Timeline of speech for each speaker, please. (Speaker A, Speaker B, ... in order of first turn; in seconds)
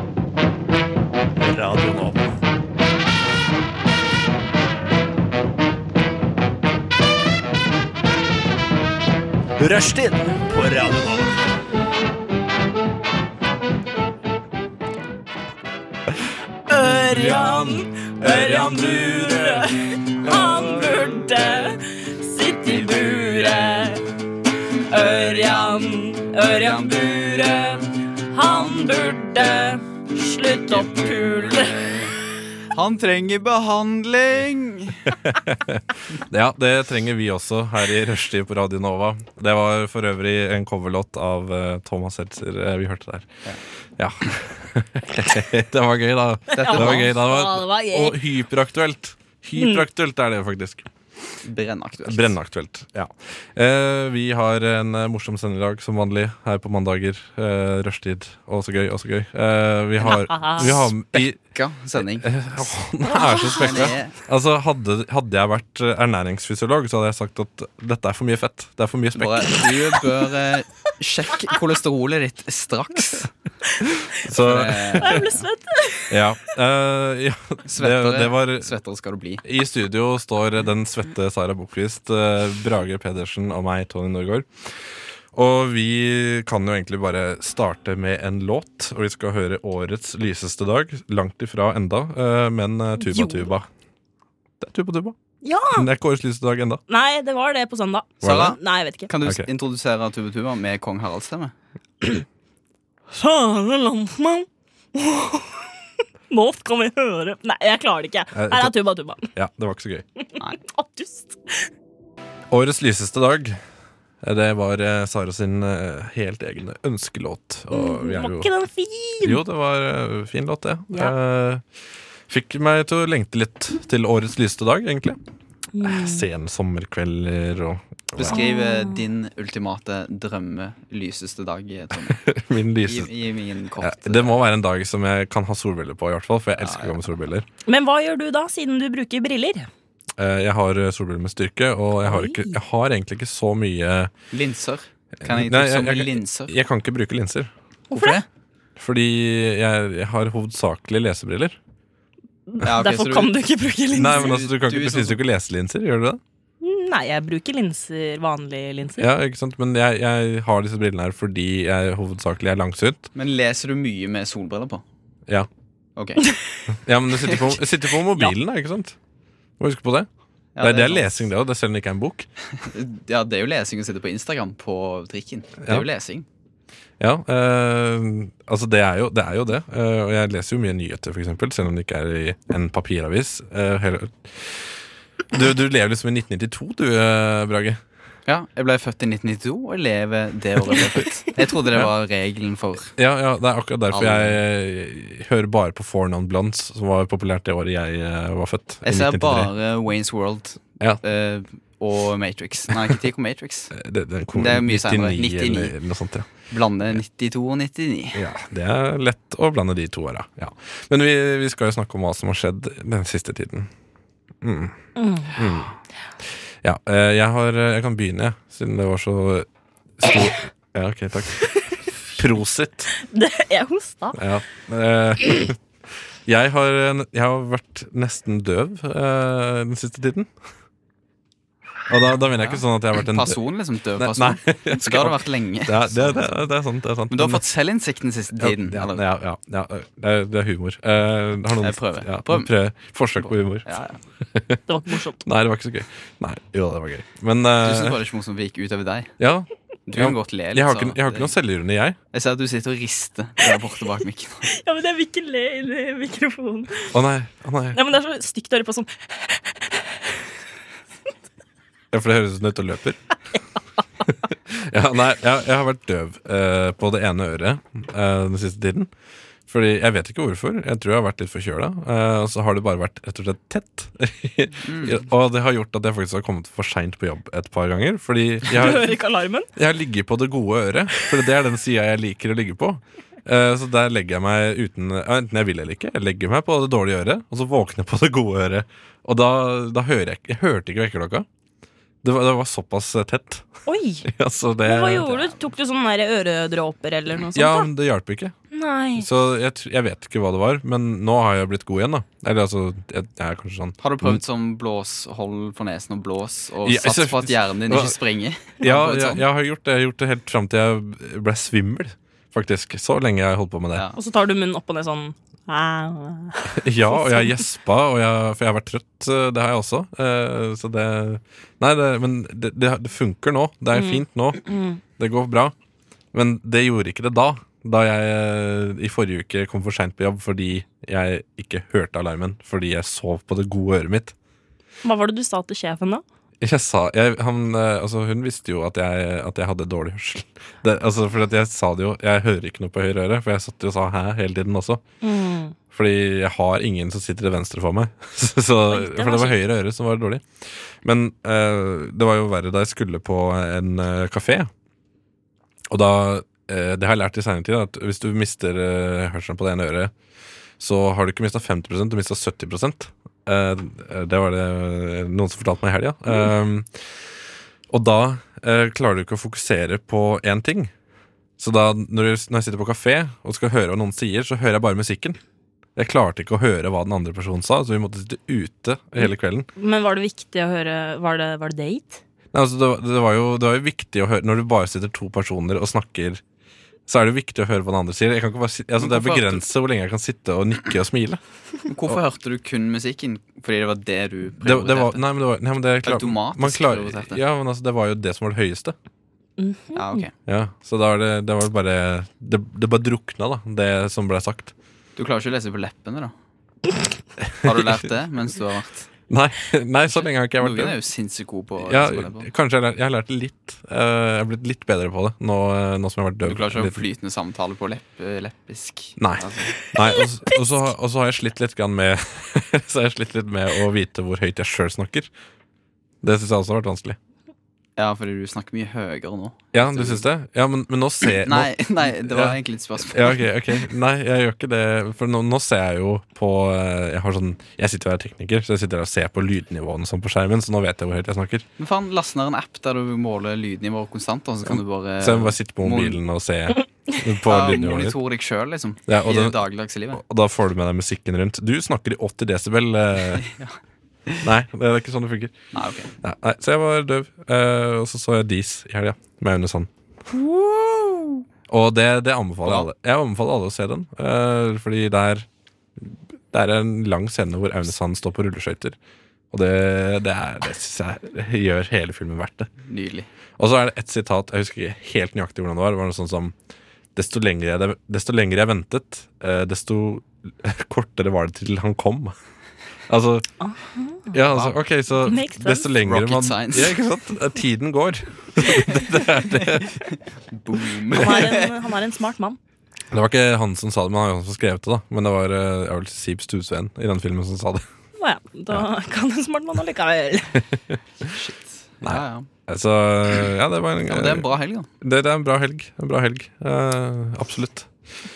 Speaker A: 1.4-2.3, 9.6-11.4
Speaker B: 16.7-24.0, 24.9-31.9, 46.6-48.2, 49.5-49.9, 60.1-60.7, 63.1-63.9, 74.9-76.2, 93.0-93.5, 95.4-95.9, 96.9-99.1, 103.1-105.7, 106.3-109.3, 110.5-111.7, 117.7-119.4, 125.7-126.2, 128.3-129.0, 137.7-139.7, 142.0-142.6, 147.9-148.2, 152.5-154.3, 156.6-159.1, 215.0-215.4, 223.0-224.2, 244.7-245.2, 254.5-257.0, 257.7-260.2, 278.5-279.5, 293.7-294.1, 294.6-297.7, 298.5-299.1, 313.9-317.4, 323.7-324.8, 334.8-336.0, 345.0-345.6, 348.7-349.4, 379.0-382.0, 399.4-400.0, 419.7-420.4, 483.4-484.2, 485.0-485.7, 490.9-492.4, 498.0-500.4
Speaker C: 18.2-19.2, 35.2-43.3, 44.0-50.9, 52.0-61.4, 62.0-70.0, 74.1-75.2, 76.1-78.7, 79.4-93.7, 94.6-95.2, 95.7-96.8, 98.2-98.5, 108.3-108.7, 109.3-110.0, 112.5-113.6, 114.2-118.5, 119.2-121.6, 122.3-125.2, 125.8-128.4, 132.1-133.1, 133.8-137.4, 140.2-144.1, 145.2-147.5, 148.8-151.6, 153.9-156.2, 159.0-163.1, 166.8-168.9, 169.6-170.1, 170.6-172.3, 175.6-175.8, 177.0-184.8, 185.3-187.8, 192.9-199.5, 203.7-206.3, 208.1-213.7, 214.4-214.8, 215.3-215.7, 216.2-219.5, 220.0-221.6, 222.1-222.9, 224.1-225.6, 226.2-230.3, 231.9-233.4, 234.0-237.4, 238.4-243.7, 244.2-244.6, 245.2-248.0, 249.2-252.0, 256.9-257.8, 261.9-263.0, 264.2-268.9, 269.5-278.9, 279.5-291.2, 292.0-293.5, 294.0-295.3, 297.3-298.3, 298.9-304.2, 306.6-308.0, 308.6-313.8, 316.5-324.4, 325.0-325.5, 326.1-334.1, 336.4-344.8, 345.7-354.5, 355.7-359.9, 360.6-366.9, 367.7-370.7, 371.4-375.2, 375.8-379.5, 382.3-386.2, 386.9-391.2, 394.4-398.8, 400.2-404.5, 407.3-407.7, 409.1-410.8, 411.6-416.8, 419.0-425.1, 426.0-427.0, 429.5-441.5, 444.4-448.0, 448.9-449.4, 449.9-453.2, 454.2-455.3, 456.0-459.7, 461.5-465.3, 465.8-468.8, 469.3-472.5, 473.4-476.3, 476.9-482.1, 482.9-483.3, 484.1-489.8, 492.9-497.6, 501.8-507.7
Speaker D: 20.2-20.9, 22.6-24.0, 24.9-27.8, 28.4-29.8, 30.4-32.1, 32.7-35.1, 46.5-47.1, 51.4-52.4, 60.6-62.3, 63.5-64.2, 69.1-73.3, 74.3-75.4, 77.7-79.4, 98.2-101.5, 128.2-132.2, 132.8-134.4, 136.6-137.1, 144.3-146.5, 147.9-148.2, 152.6-153.3, 154.1-155.2, 163.1-164.8, 166.0-166.2, 167.2-167.5, 170.6-171.2, 172.6-176.2, 188.3-192.9, 193.9-194.4, 198.8-203.7, 204.3-205.7, 206.5-208.2, 232.4-236.2, 237.1-239.0, 241.6-242.5, 243.2-244.0, 247.6-249.1, 249.9-251.3, 252.1-254.5, 274.6-275.1, 303.8-309.2, 388.8-389.4, 391.7-395.0, 395.8-397.2, 399.8-400.1, 405.0-406.1, 407.4-408.9, 409.9-412.3, 416.2-419.6, 427.8-430.0, 431.2-433.2, 441.6-446.0, 447.2-450.0, 453.2-453.5, 455.5-455.9, 460.2-461.2, 462.4-462.7, 472.7-473.1, 484.3-484.5, 485.8-486.7, 489.9-491.5, 501.0-502.3, 503.9-504.7